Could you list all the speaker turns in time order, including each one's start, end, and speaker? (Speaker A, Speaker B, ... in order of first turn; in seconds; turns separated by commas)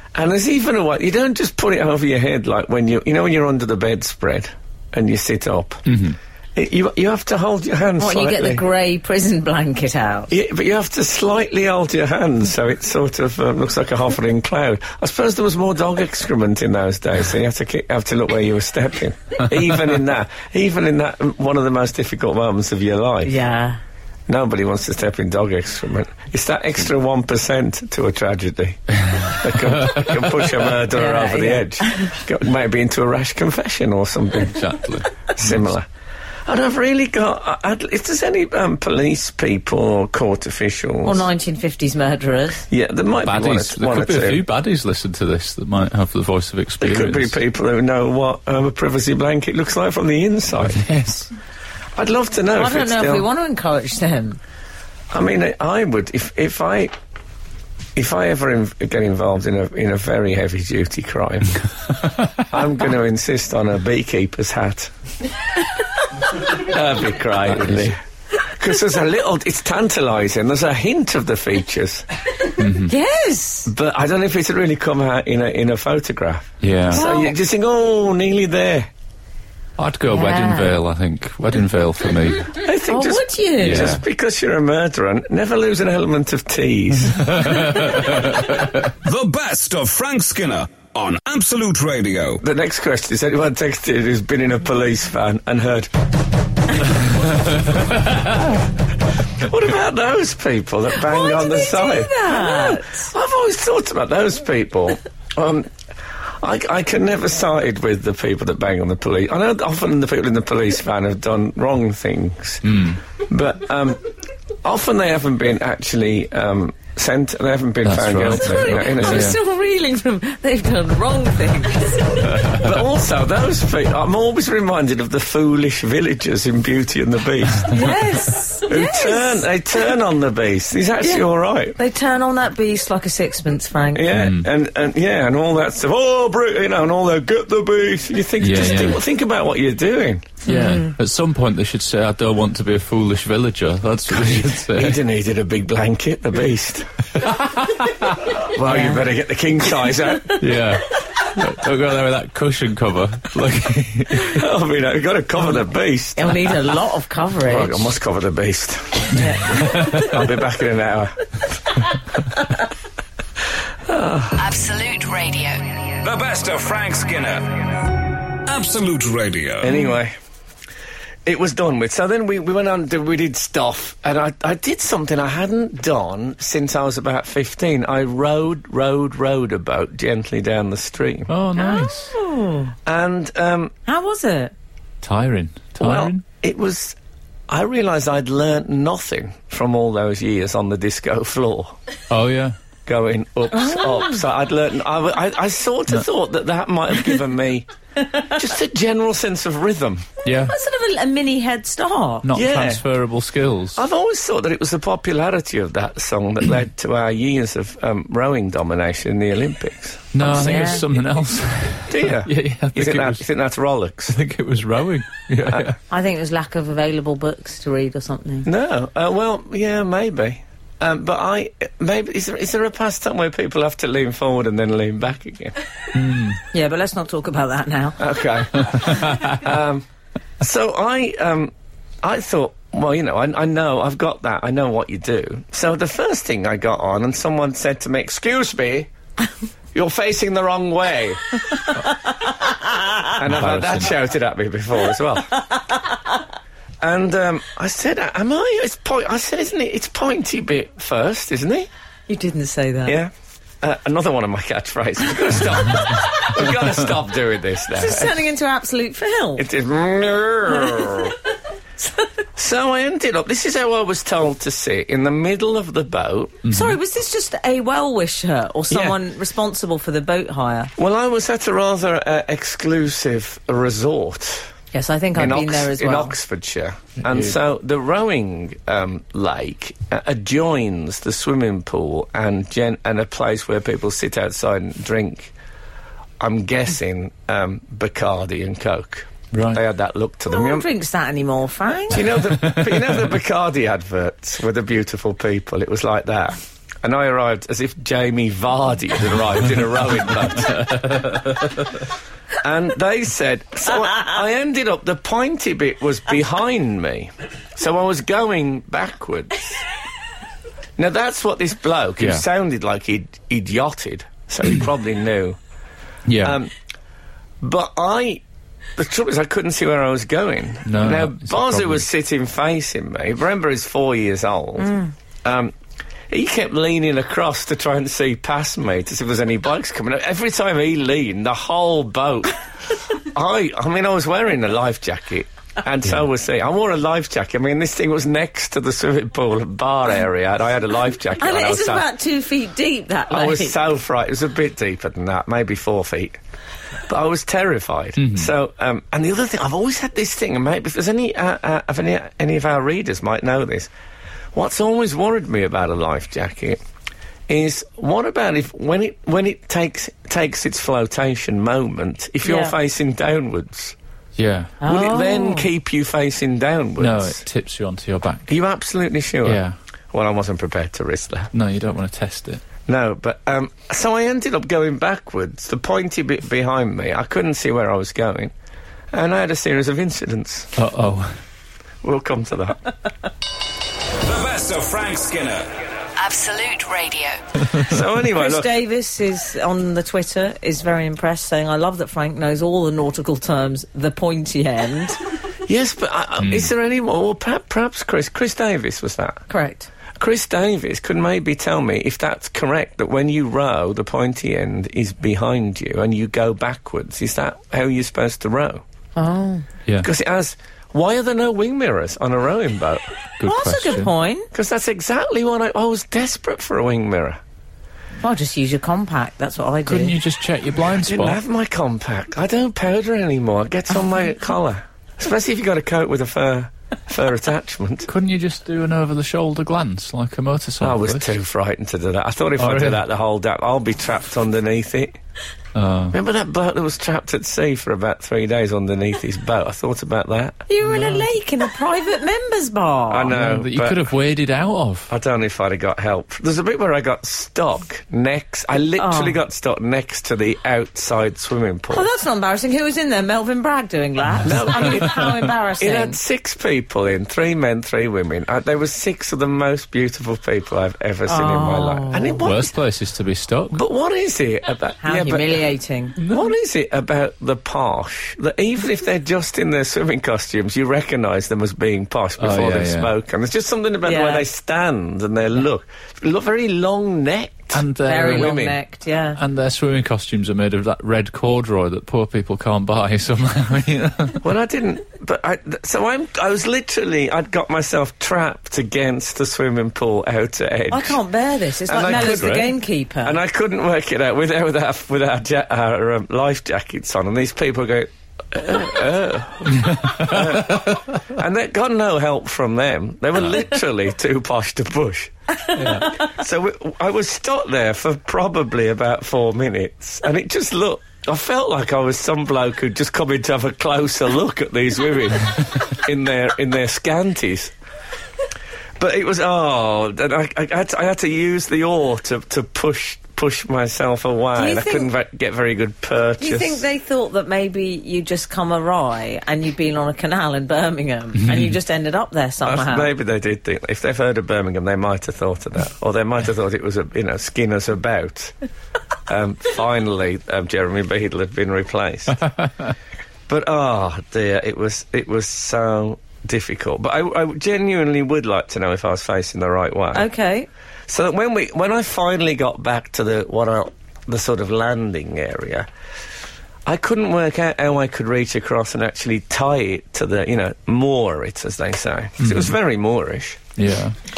Speaker A: 0.1-6.0, Speaker B: 5.9-6.2, Speaker A: 6.5-8.6, Speaker C: 8.0-10.3, Speaker A: 10.3-23.4, Speaker C: 23.2-23.8, Speaker A: 24.3-34.8, Speaker C: 30.9-32.2, Speaker B: 34.5-35.6, Speaker A: 35.4-35.9, Speaker A: 36.5-41.3, Speaker C: 41.0-42.6, Speaker A: 42.7-44.4, Speaker B: 43.2-47.4, Speaker A: 46.8-50.8, Speaker B: 50.6-51.3, Speaker A: 52.0-53.3, Speaker C: 52.5-54.4, Speaker A: 55.1-56.9, Speaker A: 58.0-61.6, Speaker A: 62.4-64.9, Speaker A: 66.5-72.1, Speaker B: 67.5-67.9, Speaker B: 72.6-72.9, Speaker C: 72.9-73.7, Speaker A: 73.7-78.9, Speaker B: 76.6-77.0, Speaker C: 76.9-77.3, Speaker B: 79.8-82.5, Speaker C: 80.1-80.7, Speaker A: 82.5-87.6, Speaker C: 82.9-83.9, Speaker B: 83.6-84.0, Speaker B: 87.3-88.5, Speaker D: 89.0-92.4, Speaker A: 92.4-95.9, Speaker A: 99.4-105.7, Speaker C: 101.0-103.1, Speaker A: 106.4-114.1, Speaker B: 112.7-113.0, Speaker A: 114.6-119.3, Speaker B: 117.8-119.4, Speaker C: 118.3-122.3, Speaker A: 122.5-127.9, Speaker C: 127.7-129.4, Speaker A: 128.7-131.8, Speaker C: 131.0-134.1, Speaker A: 133.9-140.4, Speaker B: 134.1-134.5, Speaker B: 138.4-139.0, Speaker C: 140.5-140.9, Speaker B: 140.5-145.0, Speaker A: 144.1-146.9, Speaker A: 148.3-150.5, Speaker C: 148.7-149.0, Speaker B: 150.4-154.4, Speaker A: 154.2-156.7, Speaker C: 156.2-157.9, Speaker A: 157.4-161.2, Speaker C: 159.2-159.4, Speaker B: 159.5-160.1, Speaker A: 163.9-164.4, Speaker E: 164.3-166.0, Speaker D: 166.0-169.7, Speaker A: 169.6-170.2, Speaker A: 171.2-181.3, Speaker B: 181.3-182.1, Speaker C: 181.6-182.7, Speaker A: 182.9-183.7, Speaker C: 183.9-184.5, Speaker B: 185.0-186.2, Speaker A: 185.8-187.0, Speaker A: 187.5-191.8, Speaker B: 192.1-192.6, Speaker A: 192.9-200.1, Speaker C: 193.6-194.0, Speaker B: 200.2-200.6, Speaker C: 200.4-202.3, Speaker B: 202.2-203.8, Speaker A: 202.3-202.8, Speaker A: 203.8-210.9, Speaker B: 210.1-213.2, Speaker C: 210.3-210.8, Speaker A: 211.9-214.2, Speaker B: 214.1-215.8, Speaker A: 215.4-215.7, Speaker C: 215.9-218.5, Speaker A: 218.5-225.6, Speaker B: 225.9-226.4, Speaker C: 226.5-228.0, Speaker A: 228.0-229.9, Speaker A: 230.4-238.9, Speaker A: 239.7-241.4, Speaker A: 243.2-245.4, Speaker B: 243.2-243.9, Speaker A: 246.8-251.7, Speaker C: 252.1-253.0, Speaker A: 252.9-258.2, Speaker C: 257.7-259.5, Speaker A: 259.4-261.1, Speaker C: 260.7-261.0, Speaker A: 262.4-266.4, Speaker B: 266.4-266.8, Speaker C: 266.5-270.7, Speaker A: 268.7-269.0, Speaker A: 270.8-274.5, Speaker C: 274.7-276.1, Speaker A: 275.1-285.3, Speaker A: 286.2-290.7, Speaker B: 289.3-289.6, Speaker C: 290.3-292.1, Speaker A: 291.9-301.4, Speaker B: 292.4-292.8, Speaker A: 302.4-309.6, Speaker A: 310.8-315.4, Speaker B: 312.0-312.2, Speaker B: 316.1-316.4, Speaker A: 316.2-316.5, Speaker A: 317.4-318.2, Speaker A: 318.8-325.5, Speaker B: 320.7-321.9, Speaker C: 324.6-324.9, Speaker A: 326.1-332.4, Speaker A: 332.9-341.9, Speaker C: 341.1-343.6, Speaker A: 343.1-346.2, Speaker A: 346.9-353.7, Speaker B: 348.0-348.3, Speaker A: 354.3-356.6, Speaker A: 357.3-363.8, Speaker C: 362.2-362.6, Speaker B: 364.2-364.6, Speaker C: 364.6-365.5, Speaker A: 364.6-367.2, Speaker B: 366.8-368.3, Speaker A: 368.3-369.4, Speaker B: 369.2-369.6, Speaker A: 369.9-371.3, Speaker B: 371.3-372.4, Speaker A: 372.7-378.3, Speaker A: 378.9-380.5, Speaker B: 380.6-381.2, Speaker A: 381.8-382.7, Speaker D: 384.0-385.5, Speaker E: 386.0-387.2, Speaker A: 387.6-388.6, Speaker C: 388.1-395.0, Speaker A: 395.5-399.2, Speaker B: 396.2-396.5, Speaker C: 399.3-399.7, Speaker A: 400.0-408.6, Speaker C: 409.0-409.5, Speaker A: 409.8-412.9, Speaker B: 413.2-413.9, Speaker C: 413.2-414.3, Speaker A: 414.3-417.2, Speaker C: 418.0-420.0, Speaker B: 419.7-421.2, Speaker A: 420.7-427.9, Speaker B: 427.9-431.1, Speaker A: 430.6-435.0, Speaker B: 432.4-432.8, Speaker B: 435.6-436.0, Speaker A: 435.9-440.4, Speaker C: 440.5-443.1, Speaker B: 440.8-441.0, Speaker A: 442.9-443.9, Speaker B: 443.1-444.9, Speaker A: 444.9-451.9, Speaker C: 448.8-449.2, Speaker C: 451.7-456.0, Speaker A: 454.2-462.6, Speaker C: 461.1-462.3, Speaker B: 462.2-463.6, Speaker A: 463.5-465.4, Speaker C: 464.8-465.9, Speaker A: 466.0-478.5, Speaker B: 472.2-472.9, Speaker C: 473.8-474.3, Speaker B: 477.5-478.6, Speaker C: 477.9-479.2, Speaker B: 479.2-484.2, Speaker A: 484.2-491.0, Speaker C: 490.7-493.2, Speaker A: 491.7-492.5, Speaker B: 491.8-492.5, Speaker A: 493.0-517.5, Speaker B: 499.7-500.0, Speaker B: 505.6-505.9, Speaker A: 518.8-526.6, Speaker C: 524.4-524.9, Speaker C: 526.2-532.9, Speaker A: 532.4-538.3, Speaker A: 539.1-542.3, Speaker A: 543.3-550.1, Speaker C: 549.9-550.5, Speaker A: 550.9-555.7, Speaker A: 556.7-563.4, Speaker B: 562.2-562.5, Speaker B: 563.6-564.0